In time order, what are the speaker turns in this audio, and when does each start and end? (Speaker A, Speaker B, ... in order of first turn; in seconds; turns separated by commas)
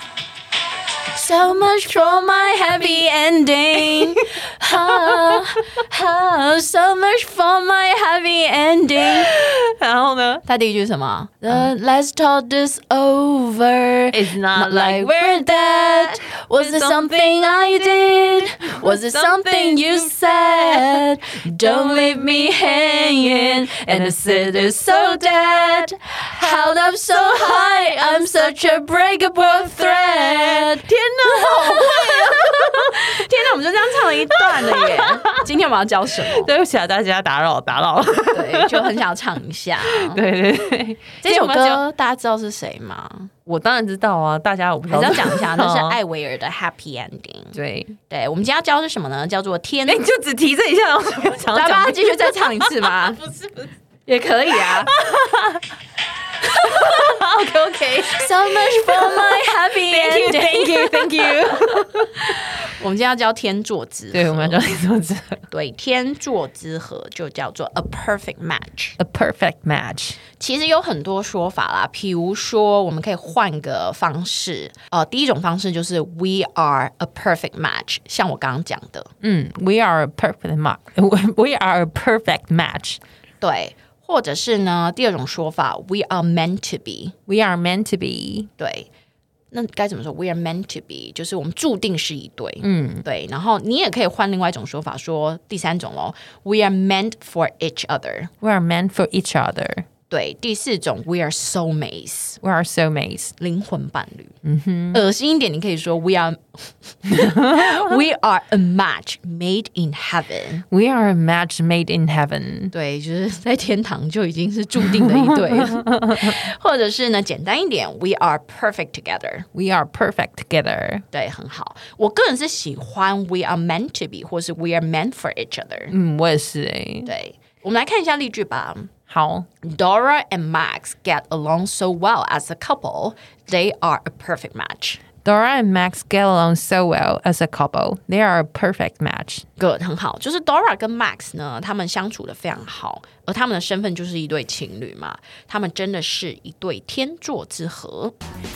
Speaker A: 1.1-9.3, Speaker B: 9.1-10.4, Speaker A: 10.4-36.5, Speaker B: 14.1-17.1, Speaker B: 18.8-20.0, Speaker B: 31.4-32.7, Speaker B: 34.6-35.3, Speaker B: 36.3-39.0, Speaker A: 38.3-40.2, Speaker B: 39.9-41.8, Speaker A: 41.2-43.3, Speaker B: 43.5-46.0, Speaker A: 44.9-47.5, Speaker B: 47.5-48.0, Speaker A: 48.1-50.0, Speaker B: 49.9-52.7, Speaker A: 51.5-53.2, Speaker A: 54.0-54.9, Speaker B: 55.0-55.6, Speaker A: 56.5-57.1, Speaker B: 56.5-62.3, Speaker A: 58.1-64.7, Speaker B: 64.1-65.4, Speaker A: 65.5-69.0, Speaker B: 69.0-70.2, Speaker A: 70.4-79.1, Speaker B: 79.2-83.0, Speaker A: 83.4-87.2, Speaker B: 87.3-88.5, Speaker A: 88.6-88.9, Speaker A: 89.5-98.3, Speaker B: 92.6-93.0, Speaker B: 98.4-99.8, Speaker A: 100.1-102.4, Speaker B: 102.4-103.3, Speaker A: 103.4-104.3, Speaker B: 104.4-105.0, Speaker A: 104.9-110.6, Speaker B: 107.2-107.7, Speaker B: 110.7-112.7, Speaker A: 112.7-119.5, Speaker B: 115.1-116.3, Speaker B: 119.5-121.0, Speaker A: 121.1-125.9, Speaker B: 125.9-127.1, Speaker A: 127.0-128.9, Speaker B: 129.1-129.4, Speaker A: 129.6-135.0, Speaker B: 135.2-139.4, Speaker A: 139.6-148.1